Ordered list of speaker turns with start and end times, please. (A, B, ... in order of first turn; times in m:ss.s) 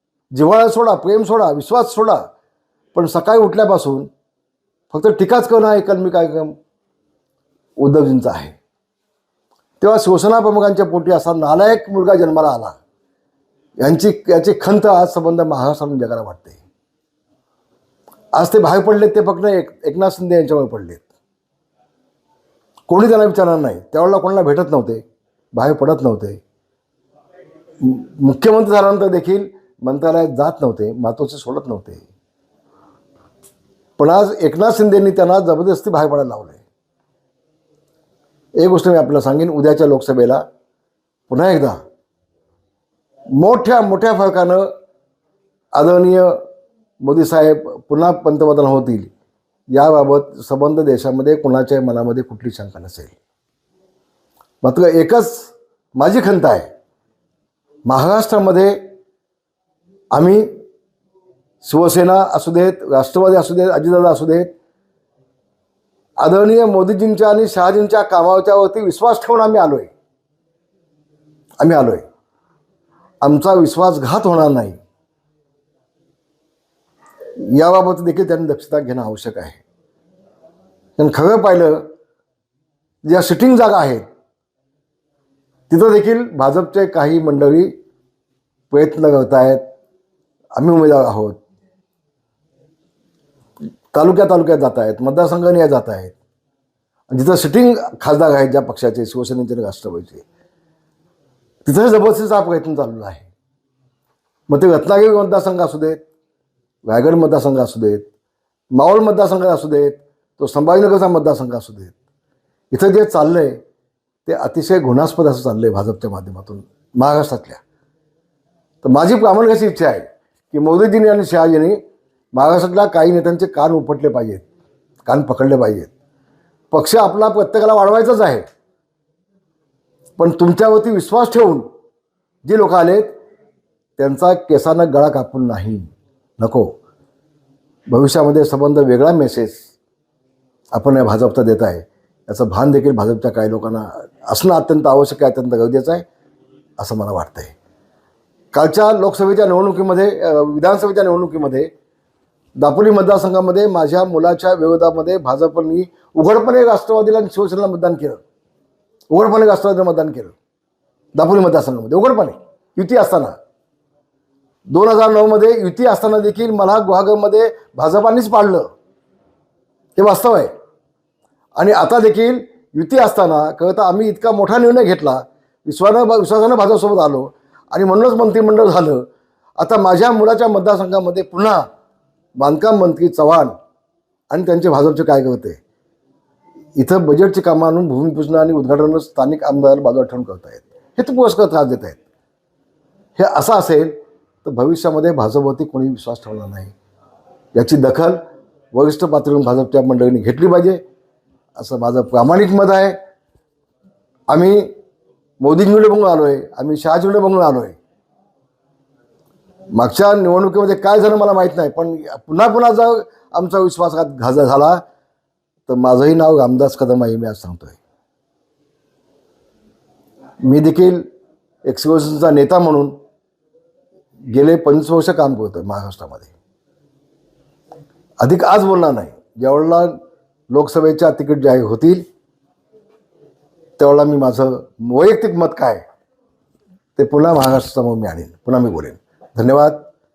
0:00.3-0:02.2 A
0:02.9-0:04.1 A
0:04.9-0:06.6 A
0:07.8-0:08.6 A
0:09.8-0:12.8 A
0:13.8-0:16.6 A
0:18.3-0:21.1 A
0:22.9-0:25.0 A
0:25.5-0:26.4 A
0:27.8-0:32.1 A
0:34.0-0:36.6 A
0:38.6-0:40.4 A
0:41.3-0:41.8 A
0:43.4-0:44.7 A
0:45.7-0:46.4 A
0:47.0-0:49.1 A
0:49.7-0:53.2 A
0:54.6-0:56.7 A
0:57.9-0:58.8 A
1:00.1-1:00.5 A
1:01.6-1:04.5 A
1:06.2-1:09.9 A
1:11.6-1:12.0 A
1:13.2-1:14.8 A
1:17.4-1:19.6 A
1:21.0-1:21.9 A
1:23.0-1:24.0 A
1:25.7-1:27.7 A
1:28.7-1:29.6 A
1:30.6-1:31.4 A
1:33.9-1:36.2 A
1:37.1-1:40.2 A
1:41.6-1:43.3 A
1:44.5-1:46.0 A
1:46.8-1:48.1 A
1:48.7-1:52.0 A
1:52.7-1:53.6 A
1:54.3-1:57.6 A
1:58.8-2:01.8 A
2:02.3-2:04.5 A
2:05.0-2:05.9 A
2:06.7-2:08.4 A
2:10.2-2:11.6 A
2:12.4-2:13.1 A
2:14.0-2:16.7 A
2:17.9-2:19.7 A
2:20.7-2:26.1 A
2:26.8-2:27.6 A
2:28.5-2:31.7 A
2:32.6-2:38.2 A
2:39.1-2:40.4 A
2:41.2-2:43.4 A
2:44.7-2:48.7 A
2:50.0-2:50.5 A
2:51.6-2:59.1 A
2:59.6-3:01.6 A
3:02.4-3:03.6 A
3:04.3-3:05.6 A
3:06.8-3:12.0 A
3:13.2-3:16.7 A
3:17.6-3:18.2 A
3:18.7-3:20.8 A
3:21.6-3:23.0 A
3:24.3-3:24.7 A
3:25.4-3:27.8 A
3:29.7-3:34.8 A
3:35.7-3:37.8 A
3:40.4-3:41.0 A
3:41.6-3:43.0 A
3:44.3-3:46.3 A
3:48.2-3:50.0 A
3:50.5-3:52.0 A
3:53.8-3:55.8 A
3:57.0-3:59.8 A